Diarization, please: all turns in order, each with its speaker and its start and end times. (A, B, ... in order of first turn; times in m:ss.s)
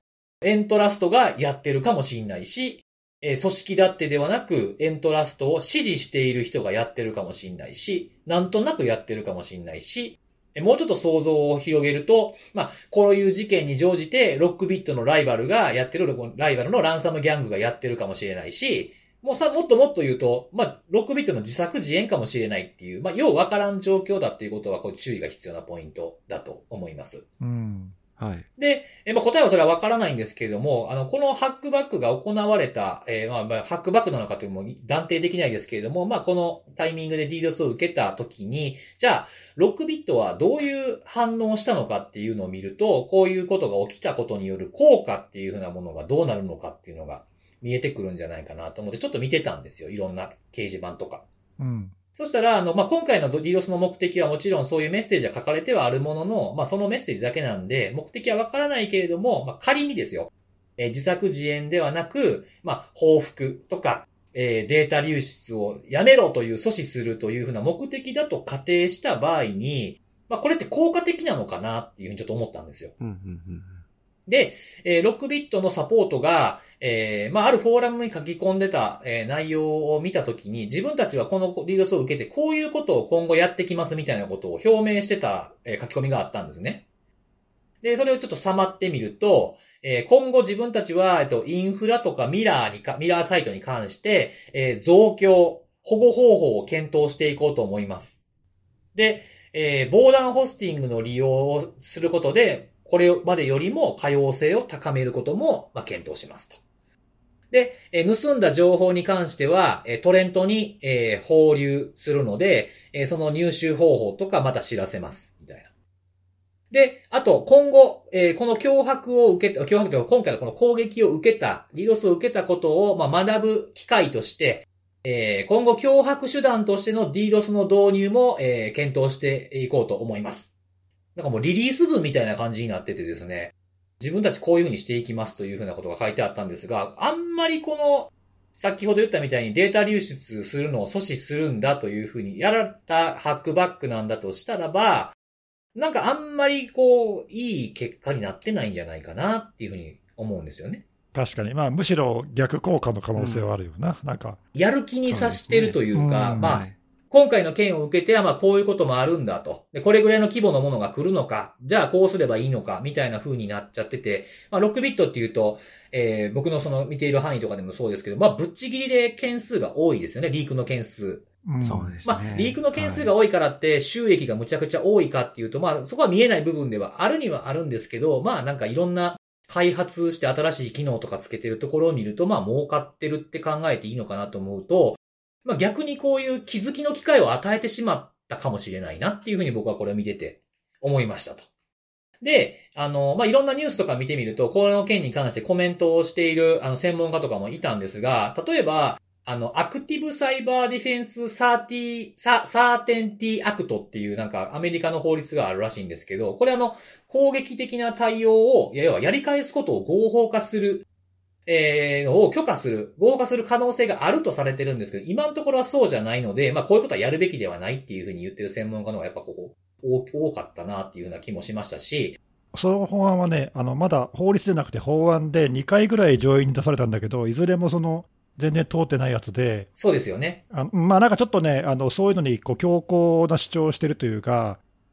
0:00.4-0:27.2 A
0:27.4-0:27.9 B
0:28.2-0:28.4 C
0:28.6-0:51.2 A
0:51.6-0:51.9 B
0:52.2-1:12.9 A
1:13.0-1:13.8 C
1:14.3-1:26.8 A
1:27.8-1:38.2 A
1:38.9-1:46.6 A
1:47.5-1:55.7 A
1:56.7-2:10.5 A
2:11.1-2:25.2 A
2:25.7-2:30.8 A
2:31.1-2:34.4 B
2:33.2-2:33.5 C
2:34.5-2:51.2 A
2:35.0-2:35.8 C
2:35.9-2:36.6 B
2:36.3-2:36.7 C
2:51.4-2:52.0 B
2:51.6-2:53.1 C
2:52.0-3:11.5 A
3:12.2-3:30.8 A
3:31.4-3:42.2 A
3:42.5-3:49.7 B
3:49.8-3:50.4 A
3:50.5-3:54.6 B